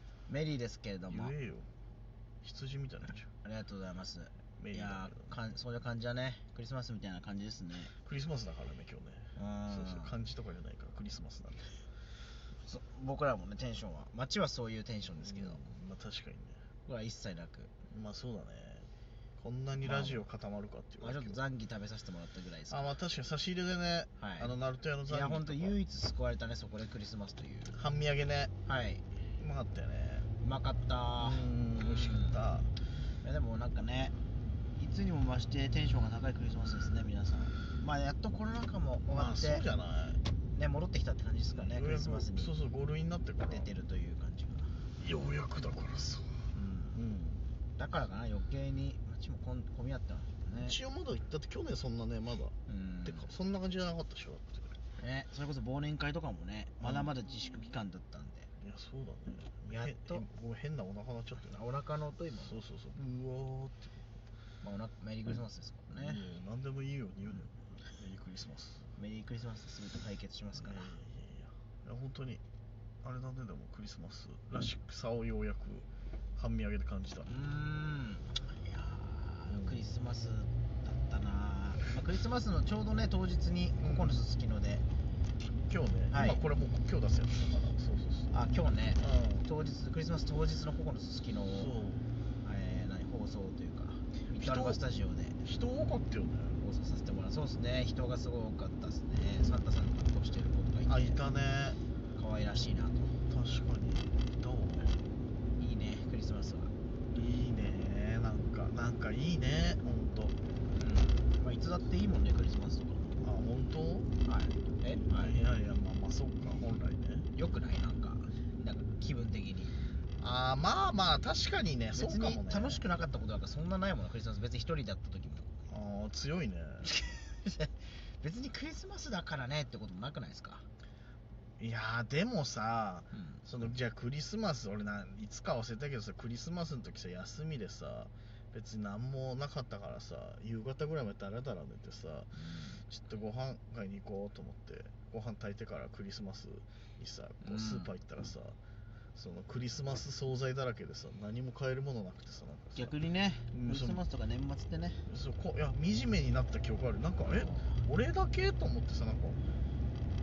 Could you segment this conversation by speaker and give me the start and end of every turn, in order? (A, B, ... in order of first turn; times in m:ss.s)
0:00.3-0:01.3 A
0:01.1-0:01.7 B
0:02.4-0:03.3 B
0:03.3-0:07.9 A
0:04.6-0:05.3 B
0:08.0-0:11.8 B
0:09.4-0:10.1 A
0:12.6-0:15.6 A
0:15.2-0:16.6 B
0:16.9-0:17.7 A
0:17.9-0:21.4 B
0:19.8-0:20.2 A
0:21.0-0:22.9 A
0:22.7-0:25.8 B
0:24.2-0:24.5 A
0:25.1-0:27.8 A
0:27.7-0:28.5 B
0:28.7-0:29.0 A
0:29.4-0:30.3 B
0:30.4-0:32.4 A
0:31.2-0:32.7 B
0:33.2-0:34.2 A
0:34.8-0:39.6 A
0:39.0-0:40.2 B
0:40.5-0:42.5 A
0:41.6-0:43.7 B
0:43.5-0:44.7 A
0:45.0-0:46.4 B
0:46.5-0:47.0 A
0:47.0-0:47.4 B
0:47.8-0:50.8 A
0:50.6-0:52.5 B
0:52.7-0:53.3 A
0:53.0-0:54.7 B
0:55.0-0:58.5 A
0:56.8-0:57.1 B
0:58.6-1:01.6 B
0:59.7-1:00.2 A
1:01.4-1:02.6 A
1:02.4-1:03.9 B
1:04.6-1:06.3 A
1:06.0-1:08.8 B
1:09.0-1:10.9 A
1:10.6-1:12.4 B
1:13.0-1:17.3 B
1:17.3-1:24.8 A
1:19.5-1:19.8 B
1:23.8-1:24.2 B
1:25.7-1:28.4 B
1:26.1-1:26.4 A
1:28.3-1:31.8 A
1:29.0-1:29.4 B
1:31.5-1:32.0 B
1:32.4-1:35.4 A
1:34.4-1:34.8 B
1:35.4-1:36.6 B
1:36.6-1:41.2 A
1:40.9-1:41.8 B
1:42.2-1:43.2 A
1:43.3-1:45.1 B
1:45.6-1:46.7 A
1:47.1-1:50.4 B
1:50.7-1:53.2 A
1:53.2-1:54.1 B
1:54.2-1:55.4 A
1:55.0-1:57.3 B
1:57.3-1:59.8 A
2:00.2-2:02.8 B
2:01.9-2:05.5 A
2:05.7-2:06.9 B
2:06.8-2:10.7 A
2:11.6-2:22.3 B
2:13.1-2:13.4 A
2:22.3-2:22.8 A
2:22.9-2:28.6 B
2:27.4-2:27.9 A
2:29.2-2:32.9 B
2:32.8-2:35.1 A
2:33.5-2:34.0 B
2:35.1-2:39.4 B
2:37.2-2:37.8 A